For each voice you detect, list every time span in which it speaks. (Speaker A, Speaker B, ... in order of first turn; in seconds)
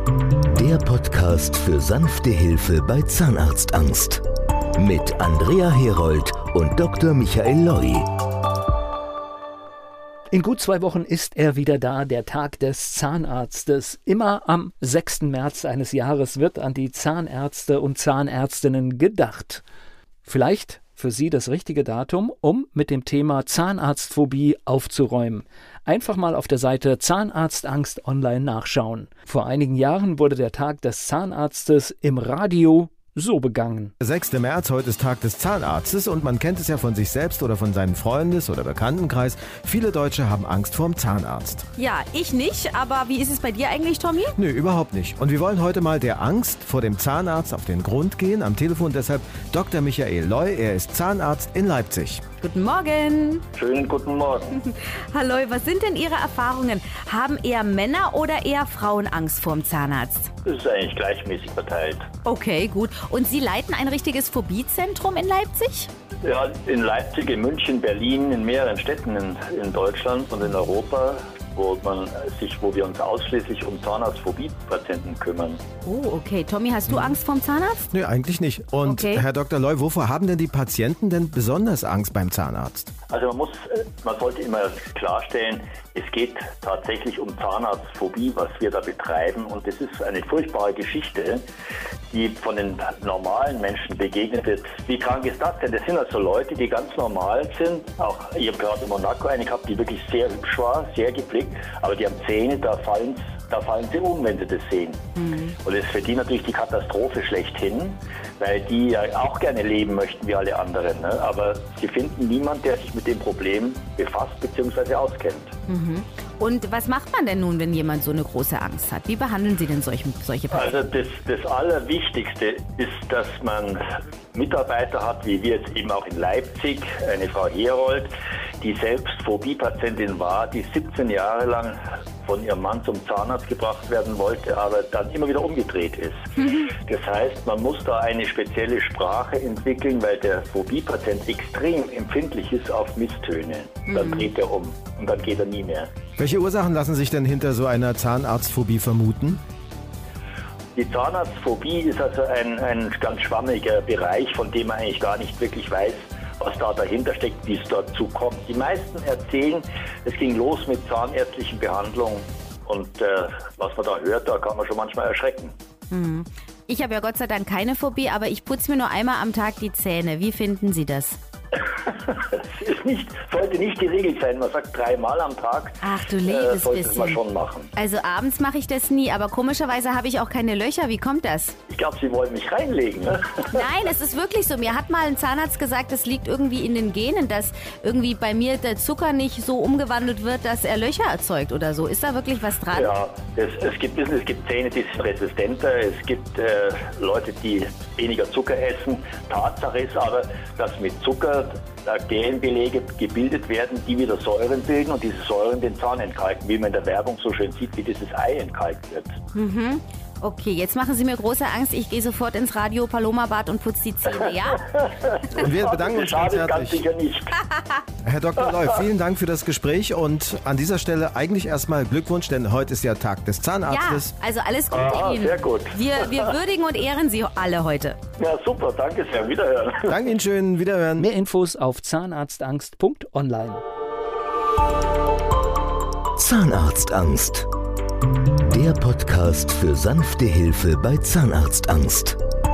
Speaker A: 0.5-4.2, 4.8-8.1, 236.2-237.5, 238.4-242.2
Speaker B: 10.3-19.6, 20.2-33.9, 231.0-233.6
Speaker C: 34.0-41.6, 44.4-52.2, 76.9-77.2, 77.9-82.9, 146.2-149.4, 215.3-216.8, 218.0-224.1, 229.8-231.1
Speaker D: 41.8-44.4, 52.4-53.4, 54.5-60.3, 62.2-65.9, 75.8-77.9, 78.9-79.2, 105.2-105.5, 115.7-120.8, 143.9-144.2, 165.9-171.2, 175.8-177.2, 177.7-181.6, 183.5-192.9, 209.3-214.6, 223.7-228.0
Speaker E: 53.5-54.6, 60.5-62.1, 66.2-75.6, 83.1-91.4, 92.1-105.1, 105.6-115.5, 120.5-145.9, 150.7-165.5, 171.8-177.7, 181.7-183.6, 192.7-209.2, 214.6-217.4, 224.7-226.3, 228.2-229.9